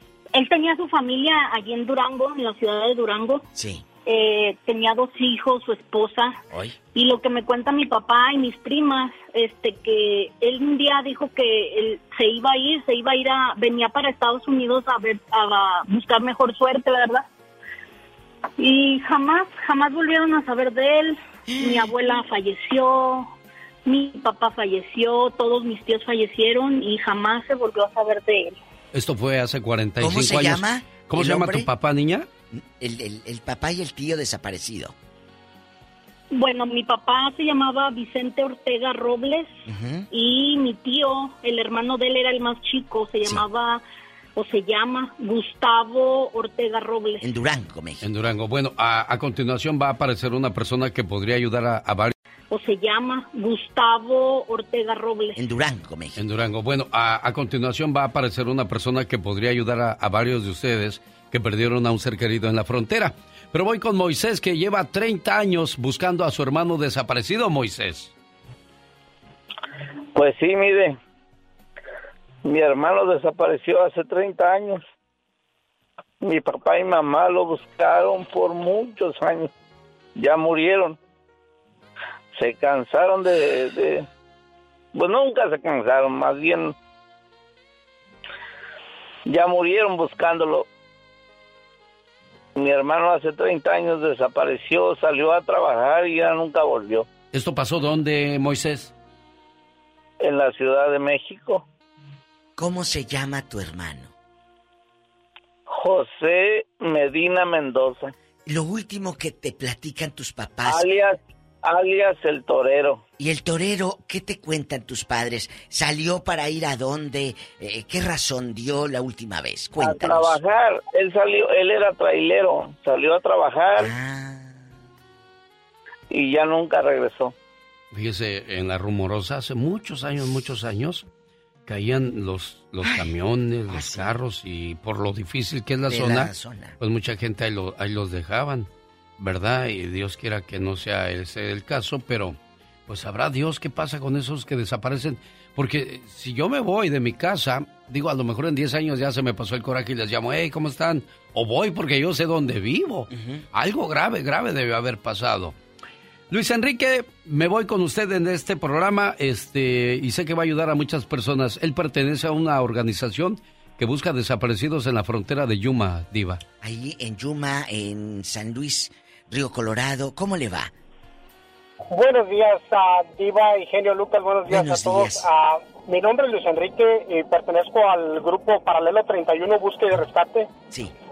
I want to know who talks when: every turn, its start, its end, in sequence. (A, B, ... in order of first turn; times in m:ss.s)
0:00.3-0:03.4 A
0:03.5-0:03.9 B
0:04.1-0:06.3 A
0:06.5-0:06.8 B
0:06.9-0:17.2 A
0:18.6-0:23.3 A
0:21.5-0:21.9 B
0:23.9-0:28.5 A
0:28.9-0:32.3 C
0:30.0-0:31.7 B
0:32.5-0:34.9 B
0:36.3-0:39.5 A
0:39.7-0:40.1 B
0:40.1-0:43.8 A
0:44.4-0:47.2 A
0:47.2-0:48.2 B
0:48.0-0:52.2 C
0:52.5-0:55.4 A
0:55.4-0:56.2 B
0:56.2-1:08.1 C
1:10.2-1:10.9 D
1:12.5-1:14.8 D
1:16.3-1:19.5 D
1:20.2-1:21.0 D
1:22.5-1:24.0 D
1:25.0-1:26.7 D
1:29.3-1:30.6 D
1:32.7-1:37.0 D
1:37.3-1:38.9 C
1:40.3-1:41.6 D
1:42.6-1:44.1 B
1:45.8-1:48.1 D
1:48.4-1:50.9 B
1:50.7-1:51.1 D
1:51.7-1:53.0 D
1:53.2-2:00.4 B
1:59.8-2:03.9 D
2:03.8-2:04.6 B
2:06.1-2:07.3 D
2:07.9-2:11.1 C
2:11.7-2:35.6 C
2:12.8-2:13.1 B
2:13.7-2:14.1 B
2:15.9-2:16.8 B
2:33.1-2:33.4 B
2:36.3-2:46.4 C
2:46.6-2:50.7 B
2:51.9-3:00.5 E
2:54.5-2:55.2 B